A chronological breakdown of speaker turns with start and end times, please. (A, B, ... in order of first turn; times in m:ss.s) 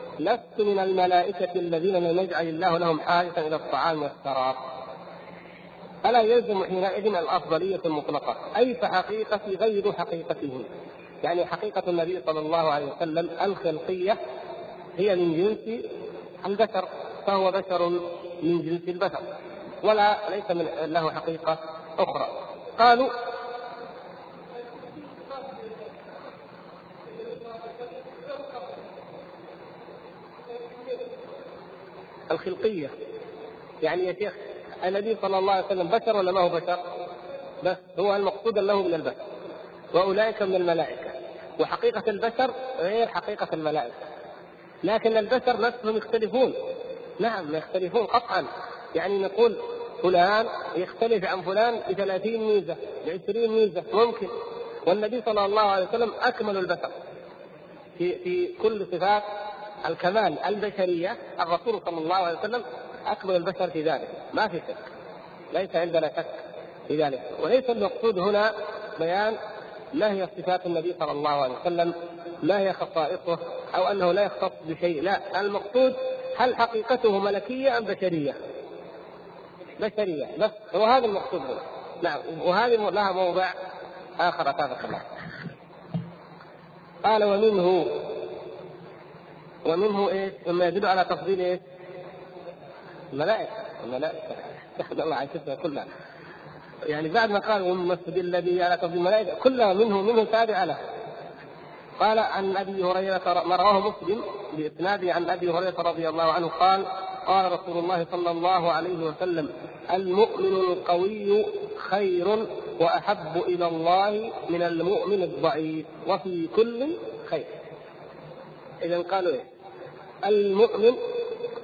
0:00.2-0:04.6 A
0:06.0-0:10.7 A
0:11.2-0:14.2 A
0:15.0-0:15.8 A
0:16.4-0:19.2 A
0:19.8-0:23.1 A
0:32.3-0:32.9 A
0:33.8-0:36.8 A
0:37.6-0:39.2 A
0:39.9-0:44.0 A
0:44.8-0:46.5 A
0:47.2-0:54.3 A
0:54.8-0:56.9 A
0:58.0-0:59.2 A
0:59.8-1:04.8 A
1:05.5-1:06.3 A
1:06.9-1:09.4 A
1:09.9-1:18.4 A
1:19.8-1:23.5 A
1:24.2-1:25.0 A
1:27.0-1:27.9 A
1:29.6-1:31.6 A
1:33.1-1:35.9 A
1:36.9-1:40.8 A
1:42.0-1:57.5 A
1:58.8-1:59.4 A
2:00.2-2:01.0 A